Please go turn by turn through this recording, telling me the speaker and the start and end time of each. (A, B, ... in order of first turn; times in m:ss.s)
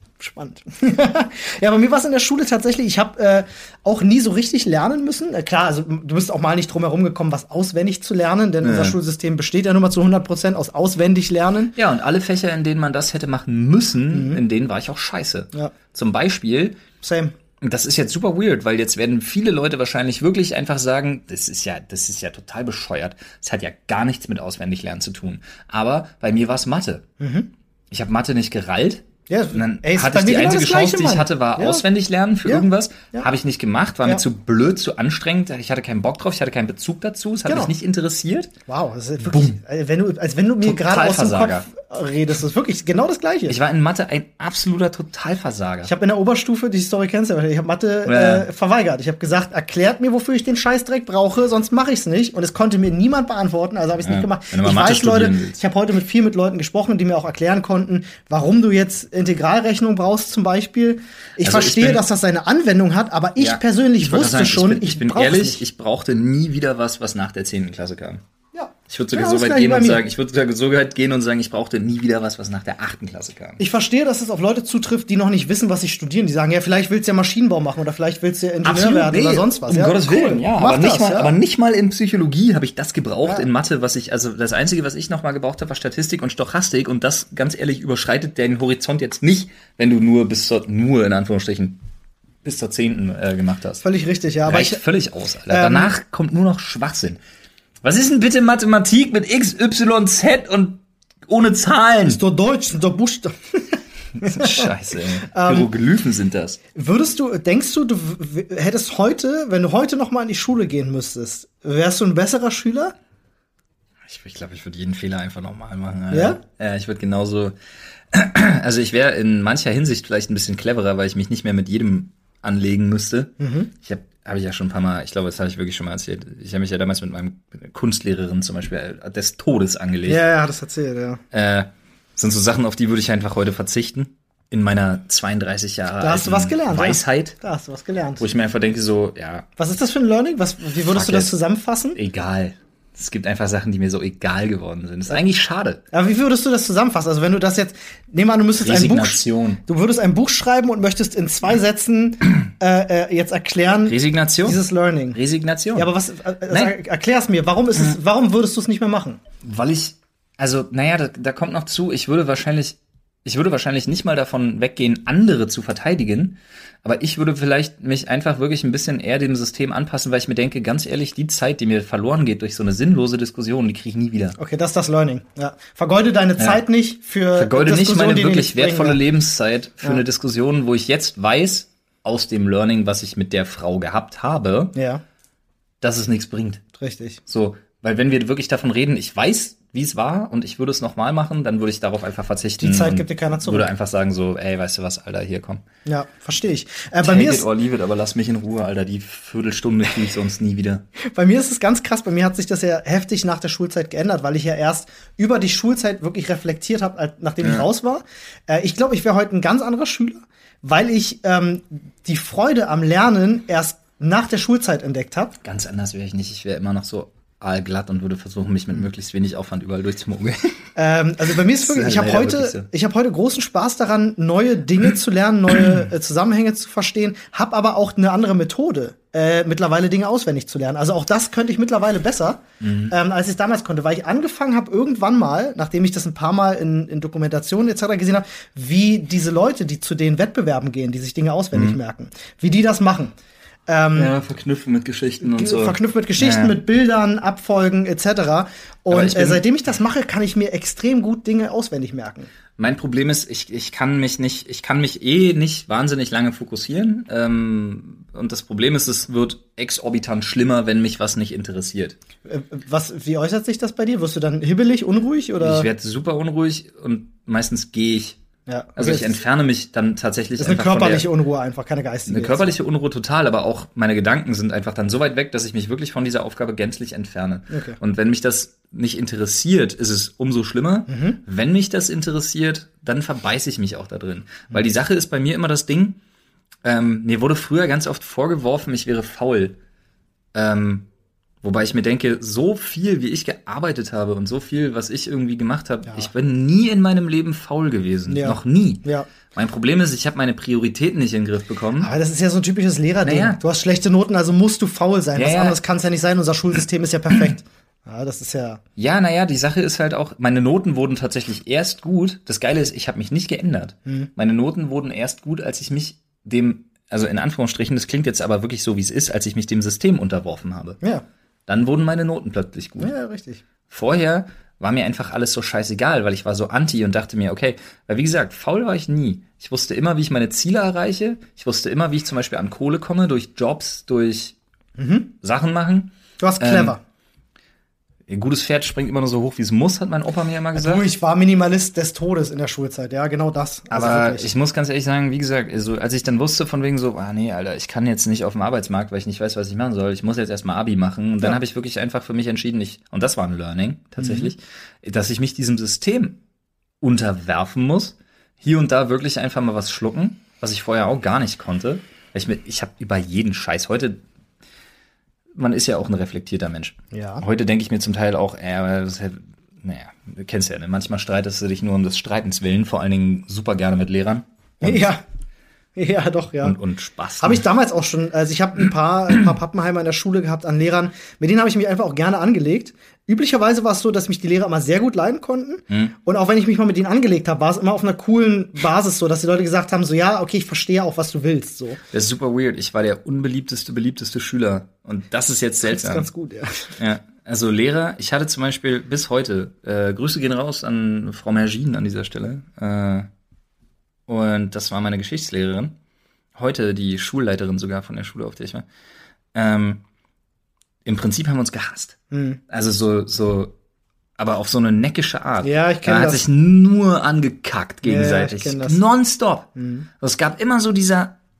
0:00.2-0:11.7 A
0:08.6-0:09.0 B
0:11.8-0:16.8 B
0:14.1-0:14.4 A
0:17.0-0:17.3 A
0:17.6-0:27.0 B
0:27.2-0:27.5 A
0:27.9-0:38.5 B
0:29.3-0:31.8 A
0:32.4-0:33.3 A
0:37.5-0:37.7 A
0:38.7-0:43.6 A
0:39.2-0:39.6 B
0:40.6-0:41.7 B
0:43.5-0:45.9 B
0:45.8-1:05.6 A
0:48.0-0:48.4 B
0:54.0-0:55.6 B
1:01.4-1:02.0 B
1:03.4-1:08.2 B
1:08.5-1:10.0 A
1:08.9-1:13.6 B
1:13.6-1:21.3 A
1:18.6-1:31.8 B
1:32.4-1:33.8 B
1:33.8-1:34.8 A
1:34.4-1:37.2 B
1:35.5-1:35.9 A
1:37.8-1:42.2 B
1:42.1-1:44.7 A
1:44.2-1:46.6 B
1:45.2-1:45.7 A
1:46.7-1:52.9 A
1:54.1-1:57.5 B
1:56.1-1:56.4 A
1:58.1-2:10.2 B
2:03.4-2:03.7 A
2:10.1-2:11.2 A
2:11.3-2:17.4 B
2:16.0-2:18.2 A
2:18.2-2:19.4 B
2:19.6-2:22.0 A
2:20.9-2:21.3 B
2:21.9-2:25.8 B
2:25.9-2:35.2 A
2:28.6-2:29.6 B
2:33.9-2:34.6 B
2:35.1-2:35.9 B
2:35.7-2:39.2 A
2:39.4-2:54.4 B
2:54.4-2:59.0 A
2:56.4-2:56.6 B
2:57.3-3:04.7 B
3:04.7-3:05.0 A
3:05.8-3:06.6 B
3:06.8-3:07.2 A
3:07.3-3:15.6 B
3:12.6-3:13.7 A
3:15.8-3:17.4 A
3:17.0-3:20.8 B
3:21.1-3:35.3 A
3:35.4-3:40.5 B
3:40.8-4:03.1 A
3:41.5-3:42.7 B
3:52.6-3:52.9 B
4:03.7-4:04.1 A
4:04.0-4:06.6 B
4:05.2-4:12.3 A
4:08.9-4:09.4 B
4:12.6-4:22.0 B
4:22.2-4:25.7 A
4:25.4-4:28.2 B
4:28.5-4:29.2 A
4:28.8-4:31.1 B
4:30.4-4:32.5 A
4:32.1-4:46.0 B
4:37.5-4:37.8 A
4:40.9-4:41.2 A
4:46.6-4:49.6 B
4:50.3-4:50.8 B
4:51.4-5:01.9 B
4:58.1-4:59.1 A
5:01.8-5:08.6 A
5:03.0-5:03.4 B
5:05.1-5:05.6 B
5:08.8-5:20.8 B
5:21.5-5:22.9 B
5:22.8-5:23.4 A
5:23.7-5:34.4 B
5:34.8-5:35.1 A
5:35.2-5:36.8 B
5:36.2-5:36.8 A
5:38.1-5:40.8 B
5:40.5-5:44.3 A
5:43.7-5:56.2 B
5:54.0-5:54.3 A
5:56.8-6:04.0 B
6:05.3-6:14.9 B
6:06.9-6:07.2 A
6:14.6-6:15.0 A
6:15.8-6:16.6 A
6:16.4-6:17.4 B
6:17.2-6:31.8 A
6:31.9-6:36.1 B
6:35.6-6:36.7 A
6:36.8-6:43.1 B
6:44.1-6:45.7 B
6:46.3-6:48.6 B
6:49.3-6:49.8 B
6:50.8-6:52.0 B
6:52.1-6:52.4 A
6:52.5-6:53.5 B
6:54.2-6:59.5 B
6:55.4-6:56.2 A
6:57.8-6:58.8 A
6:59.6-6:59.9 A
7:00.0-7:01.1 B